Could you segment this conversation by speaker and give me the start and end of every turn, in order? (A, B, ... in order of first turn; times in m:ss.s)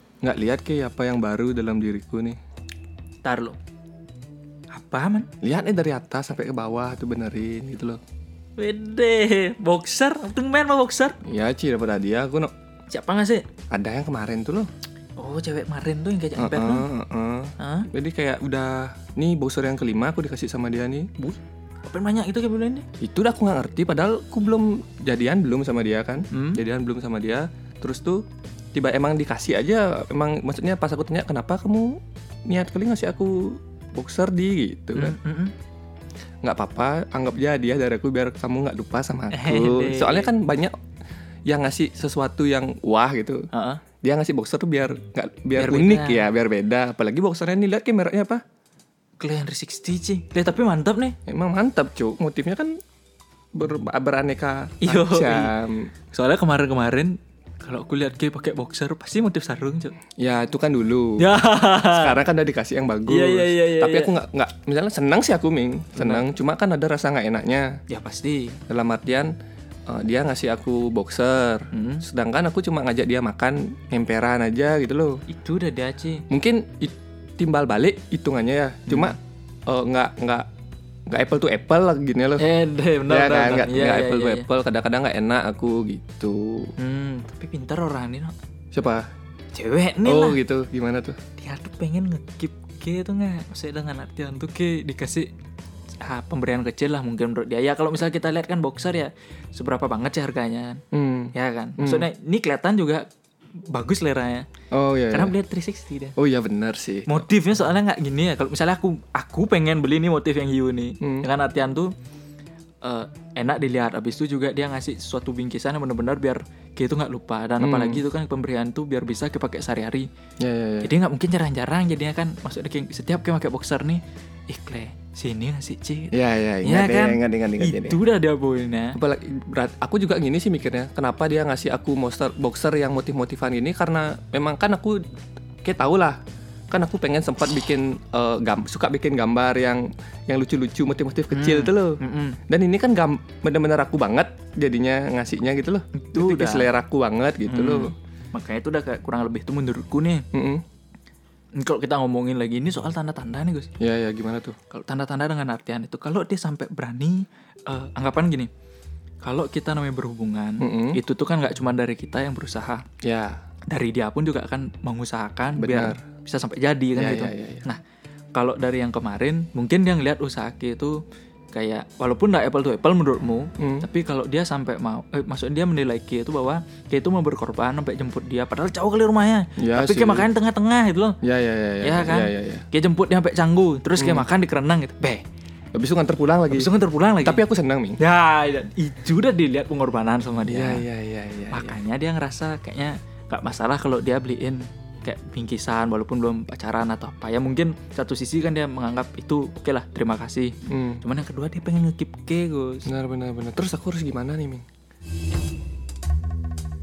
0:00.2-0:02.4 A
0:03.2-0:03.6 B
0:04.7-0:05.3 B
0:05.4-0:08.0 A
0:08.6-0:11.2 B
0:11.2-0:12.5 A
0:12.9-0:13.5 B
0:13.7-0:14.7 A
0:15.2-0:16.8 B
0:16.4-0:21.4 A
0:17.6-0:17.9 B
0:21.8-0:22.8 B
0:23.0-0:28.2 A
0:26.3-0:26.6 B
0:28.7-0:35.2 A
0:34.9-0:35.5 B
0:36.4-0:40.7 A
0:39.3-0:40.3 B
0:41.5-0:43.5 A
0:43.5-0:43.8 B
0:44.0-0:48.4 A
0:45.6-0:46.2 B
0:49.2-0:51.2 B
0:51.3-0:52.8 A
0:53.5-0:55.9 A
0:54.8-0:55.5 B
0:56.1-0:59.9 B
1:00.2-1:01.2 A
1:01.2-1:02.2 B
1:01.8-1:07.7 A
1:03.1-1:04.1 B
1:06.0-1:06.2 B
1:07.9-1:08.6 B
1:08.7-1:09.3 A
1:09.9-1:15.2 A
1:11.7-1:12.0 B
1:15.3-1:16.2 B
1:16.3-1:20.4 A
1:18.9-1:19.2 B
1:21.1-1:22.5 A
1:22.4-1:24.4 B
1:23.1-1:26.7 A
1:26.8-1:28.3 B
1:28.7-1:29.1 A
1:29.5-1:30.4 B
1:30.0-1:31.2 A
1:31.4-1:35.3 B
1:36.0-1:40.8 B
1:40.9-1:42.1 A
1:41.3-1:43.0 B
1:43.7-1:44.5 B
1:44.7-1:45.3 A
1:45.1-1:46.2 B
1:46.2-1:47.2 A
1:47.1-1:51.9 B
1:51.0-1:51.3 A
1:52.8-2:00.1 B
1:57.6-1:58.0 A
2:00.4-2:00.9 A
2:00.8-2:09.0 B
2:06.1-2:08.0 A
2:08.9-2:15.0 A
2:15.6-2:16.2 A
2:16.7-2:27.9 A
2:21.3-2:22.4 B
2:25.9-2:26.7 B
2:27.5-2:30.2 B
2:30.3-2:30.6 A
2:31.6-2:33.7 B
2:33.8-2:34.6 A
2:34.7-2:38.5 B
2:39.2-2:42.8 B
2:40.6-2:41.0 A
2:43.0-2:43.4 A
2:43.7-2:47.8 B
2:45.6-2:46.0 A
2:47.0-2:47.7 A
2:48.3-2:51.0 B
2:51.5-3:01.2 B
2:53.6-2:53.9 A
2:59.6-3:00.3 A
3:01.2-3:02.6 A
3:01.8-3:05.2 B
3:04.0-3:04.3 A
3:05.7-3:08.0 A
3:06.5-3:07.4 B
3:08.0-3:10.8 B
3:10.4-3:11.8 A
3:11.5-3:22.9 B
3:20.7-3:21.0 A
3:22.8-3:24.6 A